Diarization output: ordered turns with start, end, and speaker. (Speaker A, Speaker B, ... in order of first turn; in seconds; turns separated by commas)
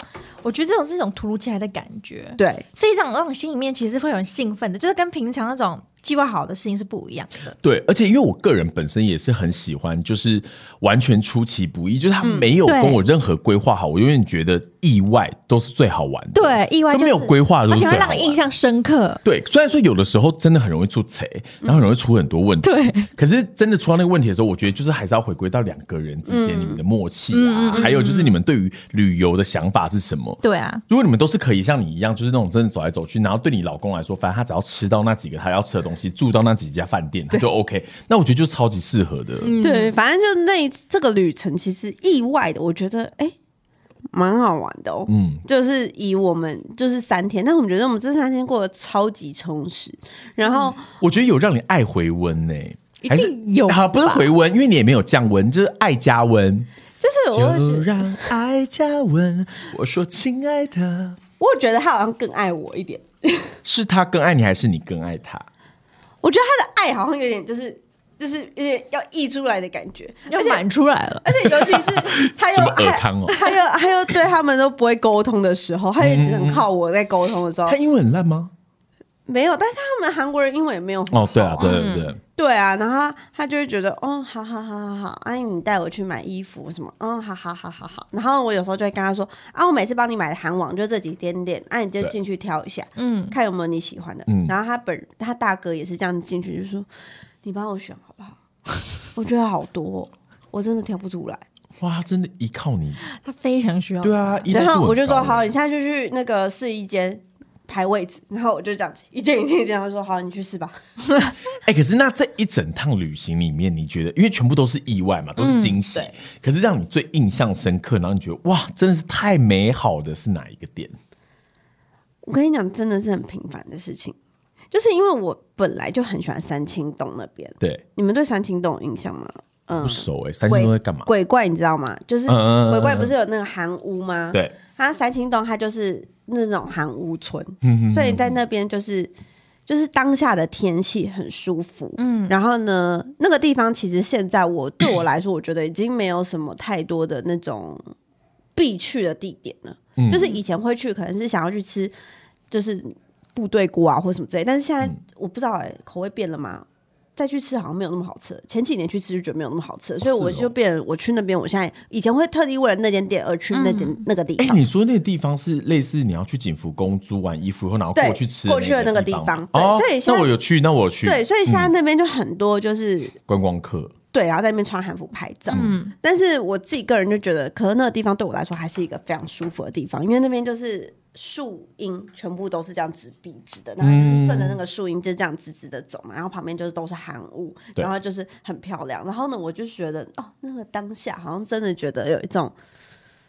Speaker A: 0.4-7.5, Speaker B: 2.4-2.6, Speaker C: 7.6-18.4, Speaker B: 12.2-12.5, Speaker A: 12.6-13.0, Speaker A: 16.3-19.2, Speaker C: 19.2-39.5, Speaker A: 22.6-23.1, Speaker B: 26.3-26.8, Speaker A: 27.3-28.4, Speaker A: 30.4-30.8, Speaker A: 39.4-40.0, Speaker B: 39.6-43.4, Speaker B: 44.1-50.8, Speaker C: 45.1-45.4, Speaker C: 50.8-56.7, Speaker A: 53.0-54.3, Speaker B: 57.0-58.1, Speaker C: 57.3-61.2, Speaker B: 61.4-63.5, Speaker C: 63.6-65.5, Speaker B: 66.2-70.6, Speaker A: 70.3-71.3, Speaker B: 71.2-77.8, Speaker C: 71.7-73.4, Speaker C: 76.0-76.6, Speaker C: 77.7-78.5, Speaker B: 79.3-96.9, Speaker C: 81.1-82.2, Speaker A: 81.6-82.1, Speaker A: 93.0-93.3, Speaker C: 94.3-94.5, Speaker B: 97.4-98.4, Speaker B: 99.1-101.4, Speaker C: 101.8-103.0, Speaker A: 103.1-104.2, Speaker C: 104.0-105.5, Speaker B: 104.5-110.8, Speaker C: 111.7-121.0, Speaker A: 115.4-115.8, Speaker B: 122.2-124.2, Speaker B: 124.7-139.1, Speaker C: 129.8-131.1, Speaker C: 132.3-133.1, Speaker C: 137.6-138.4, Speaker B: 139.7-147.8, Speaker A: 142.0-142.4, Speaker B: 148.6-151.9, Speaker C: 150.0-150.3, Speaker B: 152.5-164.6, Speaker C: 160.0-160.5, Speaker A: 163.5-164.0, Speaker C: 164.4-171.7, Speaker B: 167.9-170.3, Speaker B: 171.0-173.2, Speaker C: 173.3-173.9, Speaker B: 174.1-192.5, Speaker C: 175.5-175.8, Speaker A: 175.5-175.9, Speaker C: 183.8-184.6